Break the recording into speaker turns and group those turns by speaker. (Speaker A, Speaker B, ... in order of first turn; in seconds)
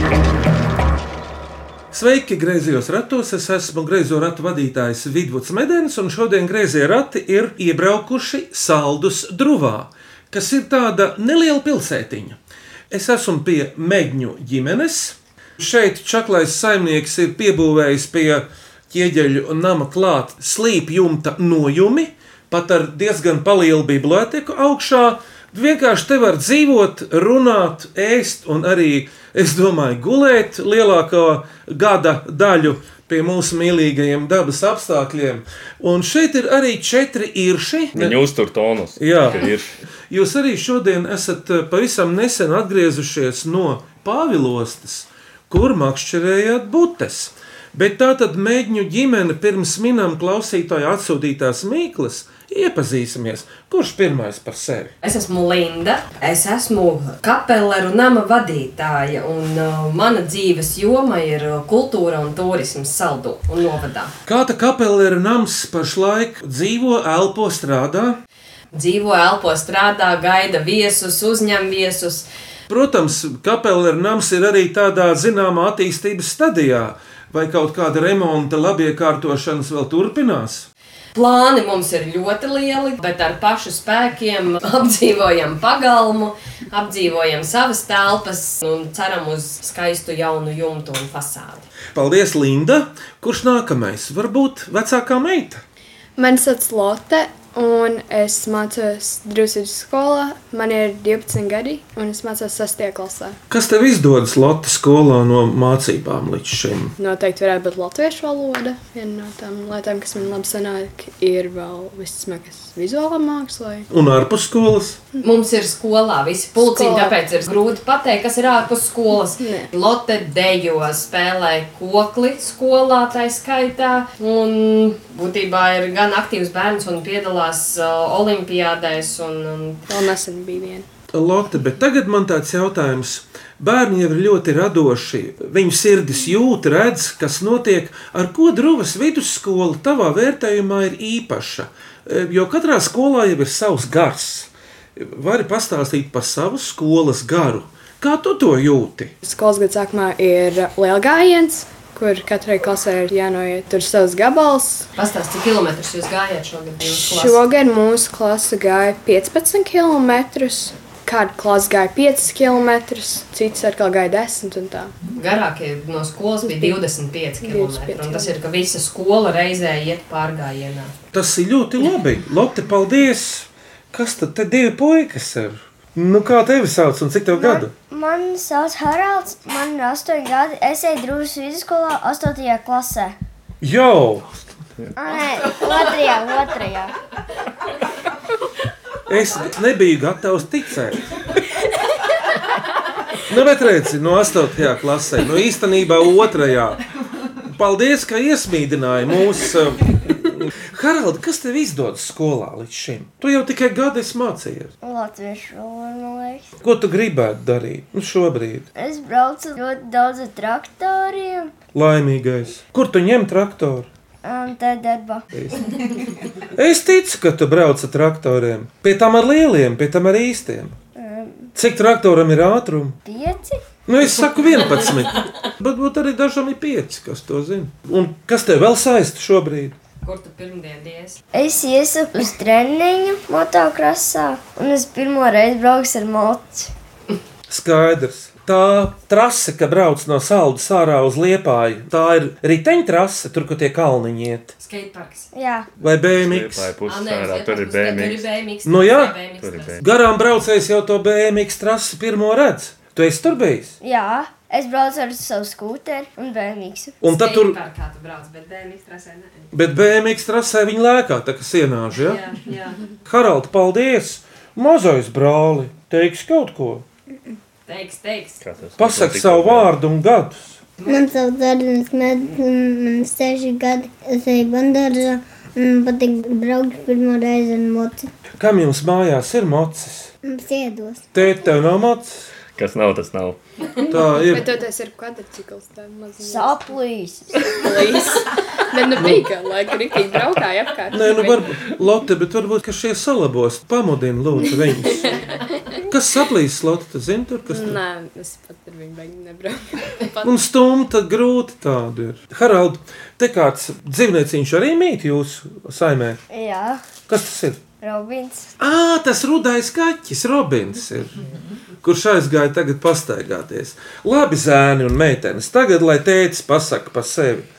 Speaker A: 1.9-12.4, 12.9-38.2, 39.0-39.5, 40.1-54.9, 64.3-68.2, 72.7-80.7, 91.9-95.6, 103.5-107.0, 113.9-115.0, 131.1-149.1, 171.1-177.7, 183.6-184.5, 189.1-191.1, 193.3-196.8, 197.5-204.7, 206.6-208.7, 211.7-213.9, 215.3-215.7, 216.5-220.8, 221.6-223.0, 223.9-229.8, 237.5-244.5, 245.8-246.7, 248.7-249.2, 249.8-253.8, 257.0-257.6, 259.5-262.2, 263.1-266.9, 268.8-270.6, 278.4-280.1, 281.1-282.3, 283.9-284.5, 289.0-289.3, 290.9-295.2, 295.9-297.8, 300.2-306.2, 307.1-307.6, 308.6-311.2, 311.8-317.5
Speaker B: 37.9-39.7, 246.1-248.3, 249.4-249.8, 268.4-269.7, 282.6-283.4
Speaker C: 55.0-64.1, 68.7-72.3, 81.2-91.7, 115.2-129.9, 155.0-157.4, 165.1-170.9, 230.0-231.2, 244.6-245.3, 246.9-249.8, 257.1-259.5, 262.0-262.8, 267.7-268.4, 270.8-271.1
Speaker D: 96.2-103.4, 107.0-113.9, 116.6-117.2, 119.4-119.7, 129.9-130.9, 149.2-154.9, 156.8-165.0, 166.5-166.8, 167.4-168.3, 284.2-286.7, 287.5-291.5, 295.0-295.5, 297.5-300.3
Speaker E: 177.3-183.1, 185.0-186.9, 204.8-206.5, 208.8-211.5, 214.2-215.2, 220.9-221.5, 223.1-223.6, 231.3-236.7, 245.3-245.7, 253.8-257.0, 286.2-287.8, 306.3-306.8, 307.8-308.5
Speaker F: 270.9-278.1, 280.2-281.1